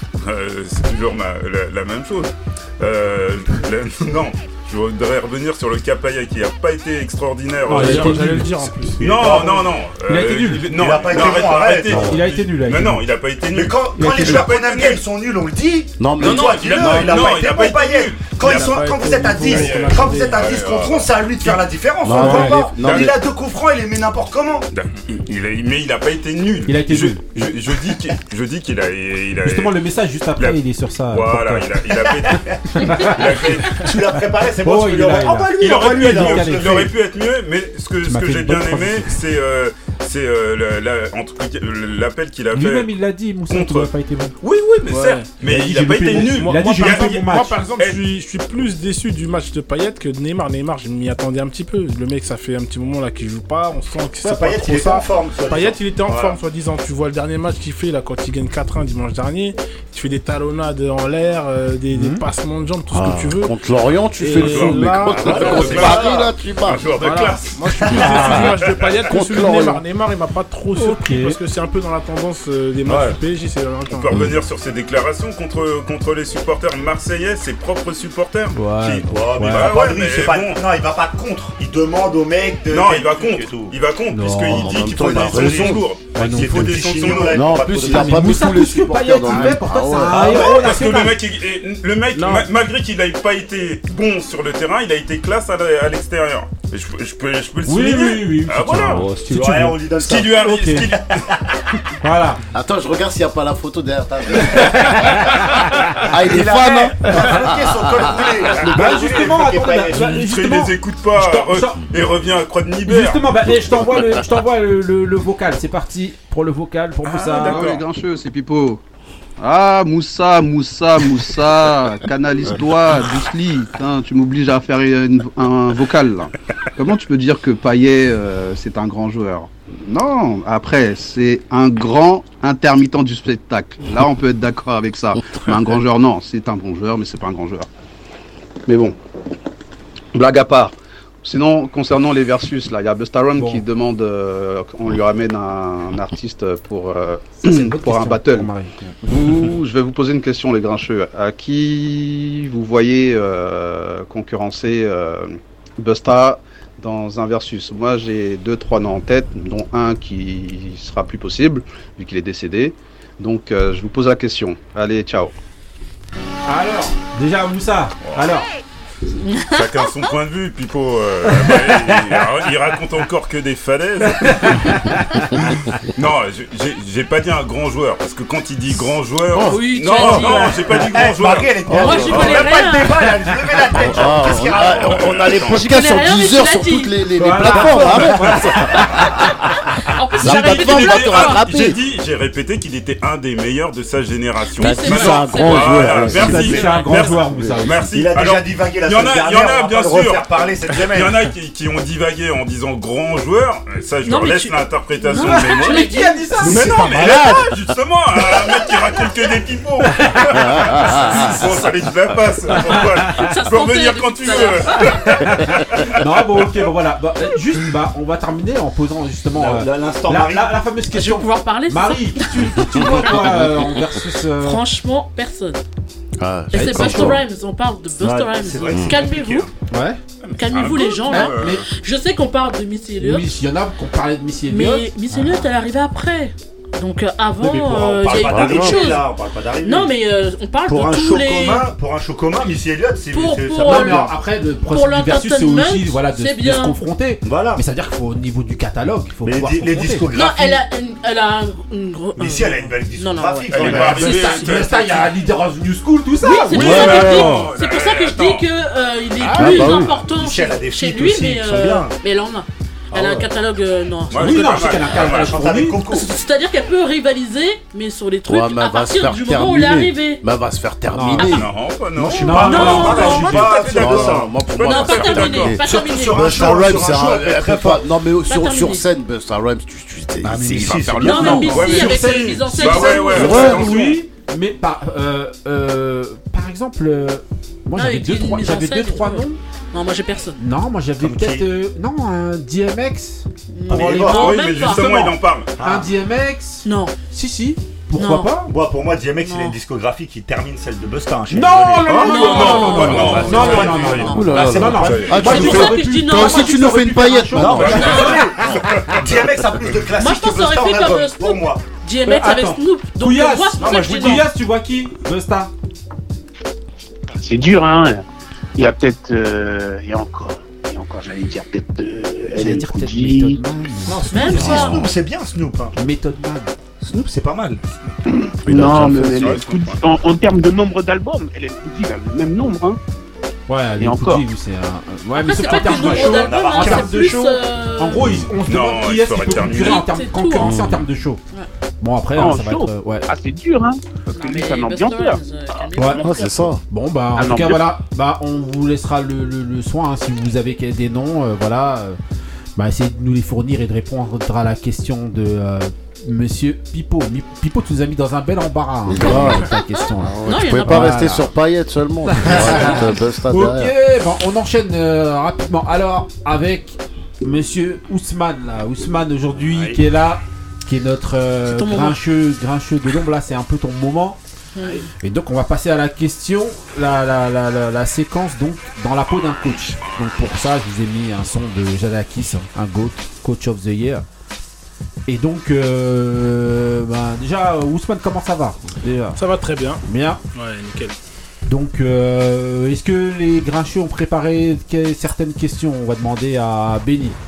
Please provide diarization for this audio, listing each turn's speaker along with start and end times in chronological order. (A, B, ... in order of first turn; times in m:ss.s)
0:00.2-0:08.3 A
0:07.7-0:08.7 B
0:07.7-0:09.0 C
0:09.0-0:09.7 D
0:09.0-0:15.0 A
0:10.1-0:11.0 B
0:10.7-0:12.2 D
0:11.9-0:13.0 B
0:13.5-0:24.7 D
0:14.0-0:14.4 B
0:16.0-0:17.4 E
0:16.2-0:18.8 A
0:18.4-0:20.5 C
0:19.4-0:21.6 A
0:22.0-0:23.1 E
0:22.1-0:22.5 B
0:22.8-0:23.2 A
0:24.7-0:29.8 A
0:26.7-0:27.4 B
0:29.4-0:31.7 B
0:31.1-0:33.8 A
0:31.9-0:33.1 D
0:32.8-0:33.6 B
0:33.7-0:36.9 D
0:34.6-0:36.9 B
0:35.6-0:42.9 A
0:38.0-0:39.1 B
0:42.5-0:44.4 B
0:43.5-0:47.2 A
0:44.9-0:45.3 C
0:45.4-0:47.6 B
0:46.2-1:03.6 C
0:47.8-0:48.0 A
0:54.2-0:56.4 D
1:01.9-1:02.2 B
1:02.9-1:06.9 E
1:04.2-1:05.8 C
1:04.4-1:08.5 A
1:04.9-1:06.4 D
1:07.0-1:14.1 C
1:08.0-1:08.6 B
1:08.1-1:08.4 E
1:09.0-1:09.8 E
1:10.8-1:11.4 B
1:12.9-1:13.2 D
1:14.1-1:20.6 A
1:18.5-1:19.8 B
1:19.1-1:23.7 D
1:22.7-1:27.6 A
1:24.1-1:31.2 B
1:24.5-1:26.4 E
1:25.4-1:28.6 D
1:27.2-1:30.4 E
1:29.3-1:30.6 D
1:30.1-1:39.1 A
1:32.2-1:32.5 C
1:37.7-1:39.8 B
1:38.8-1:41.6 D
1:40.0-1:41.3 A
1:40.4-1:40.9 B
1:42.0-1:42.4 B
1:42.5-1:48.3 E
1:46.2-1:50.2 D
1:48.7-1:51.9 B
1:49.9-1:53.3 A
1:52.9-1:57.7 B
1:57.1-1:57.8 A
1:57.4-1:58.8 F
1:59.4-2:17.7 F
2:18.7-2:19.0 F
2:20.1-2:28.5 F
2:23.4-2:23.6 B
2:27.4-2:29.1 B
2:29.0-2:45.3 F
2:46.5-2:48.5 B
2:48.0-2:48.3 A
2:49.3-2:49.9 G
2:49.5-2:54.8 A
2:51.3-2:52.0 B
2:54.2-2:55.3 B
2:55.4-3:01.6 A
2:59.4-3:00.6 G
3:00.0-3:05.5 D
3:01.7-3:02.5 E
3:01.7-3:03.2 G
3:03.7-3:09.3 E
3:04.3-3:05.7 A
3:05.5-3:07.1 G
3:07.2-3:09.0 B
3:07.6-3:09.0 A
3:10.0-3:11.6 G
3:10.2-3:11.8 E
3:10.2-3:36.4 A
3:14.6-3:16.7 G
3:14.6-3:16.6 E
3:15.7-3:21.3 D
3:16.1-3:18.1 B
3:24.0-3:26.5 G
3:25.2-3:27.0 B
3:26.4-3:27.5 D
3:33.1-3:35.3 G
3:35.2-3:44.6 B
3:39.4-3:40.6 D
3:40.9-3:43.8 G
3:44.3-3:45.6 G
3:46.2-3:47.2 E
3:46.5-3:49.5 G
3:46.5-3:47.2 B
3:48.0-3:49.5 D
3:48.7-3:48.9 E
3:49.7-3:50.0 B
3:50.2-3:51.6 A
3:50.4-3:53.3 G
3:51.1-3:51.6 B
3:53.0-3:54.9 B
3:54.5-4:01.7 G
3:57.4-3:59.9 D
3:58.1-3:59.0 E
4:00.6-4:04.1 D
4:03.1-4:04.1 G
4:03.6-4:10.1 B
4:04.7-4:06.8 G
4:07.2-4:07.6 D
4:09.2-4:10.6 D
4:10.1-4:15.0 G
4:12.2-4:15.1 D
4:13.5-4:14.8 A
4:14.0-4:17.5 B
4:16.2-4:24.9 G
4:16.5-4:18.5 A
4:16.6-4:17.2 E
4:19.2-4:19.9 B
4:19.3-4:19.9 E
4:19.9-4:22.0 D
4:22.9-4:23.3 D
4:24.1-4:25.4 A
4:24.2-4:25.8 B
4:24.9-4:26.1 D
4:25.9-4:30.2 G
4:28.3-4:31.4 E
4:30.9-4:31.5 B
4:31.2-4:31.5 G
4:31.3-4:35.6 A
4:32.0-4:34.3 D
4:32.0-4:33.2 B
4:32.3-4:33.8 G
4:33.7-4:41.3 E
4:34.6-4:37.0 G
4:35.6-4:37.9 D
4:38.2-4:38.9 G
4:40.2-4:41.8 D
4:40.9-4:49.4 B
4:41.0-4:43.6 G
4:41.5-4:44.0 A
4:43.1-4:43.7 D
4:43.2-4:43.6 E
4:47.8-4:50.4 G
4:50.4-4:58.5 B
4:51.0-4:51.5 D
4:53.5-4:54.9 G
4:53.7-4:54.5 D
4:53.7-4:55.5 A
4:55.6-4:55.9 D
4:56.6-4:57.0 G
4:58.0-4:58.4 G
4:58.4-5:04.7 D
4:59.2-4:59.6 G
5:01.3-5:08.6 B
5:01.8-5:05.6 A
5:01.8-5:06.9 G
5:04.0-5:09.2 E
5:07.4-5:08.9 A
5:07.4-5:11.7 D
5:07.7-5:08.2 G
5:10.0-5:14.3 G
5:12.1-5:15.5 B
5:13.6-5:14.2 D
5:17.1-5:18.0 H
5:18.6-5:23.4 H
5:22.3-5:24.5 B
5:23.9-5:24.4 C
5:24.1-5:24.9 G
5:24.1-5:25.8 D
5:24.3-5:24.8 E
5:25.8-5:26.5 B
5:26.8-5:27.6 D
5:28.1-5:32.8 H
5:28.6-5:29.1 E
5:28.6-5:29.6 D
5:28.7-5:29.8 A
5:28.9-5:29.3 B
5:33.5-5:41.2 B
5:33.8-5:34.2 H
5:35.2-5:38.2 G
5:35.4-5:37.0 D
5:38.4-5:39.9 A
5:39.4-5:40.6 G
5:40.4-5:40.9 E
5:41.8-5:43.1 B
5:42.1-5:46.5 H
5:44.1-5:46.3 G
5:45.8-5:46.1 B
5:45.9-5:46.6 E
5:46.6-5:52.0 B
5:47.2-5:47.7 H
5:52.6-6:01.3 B
5:58.9-6:03.7 E
5:59.0-6:01.2 G
6:02.1-6:14.2 B
6:09.4-6:09.8 D
6:11.5-6:12.0 G
6:14.6-6:14.8 G
6:15.0-6:24.0 B
6:25.1-6:29.2 B
6:29.2-6:31.0 C
6:29.8-6:30.2 B
6:31.5-6:37.2 B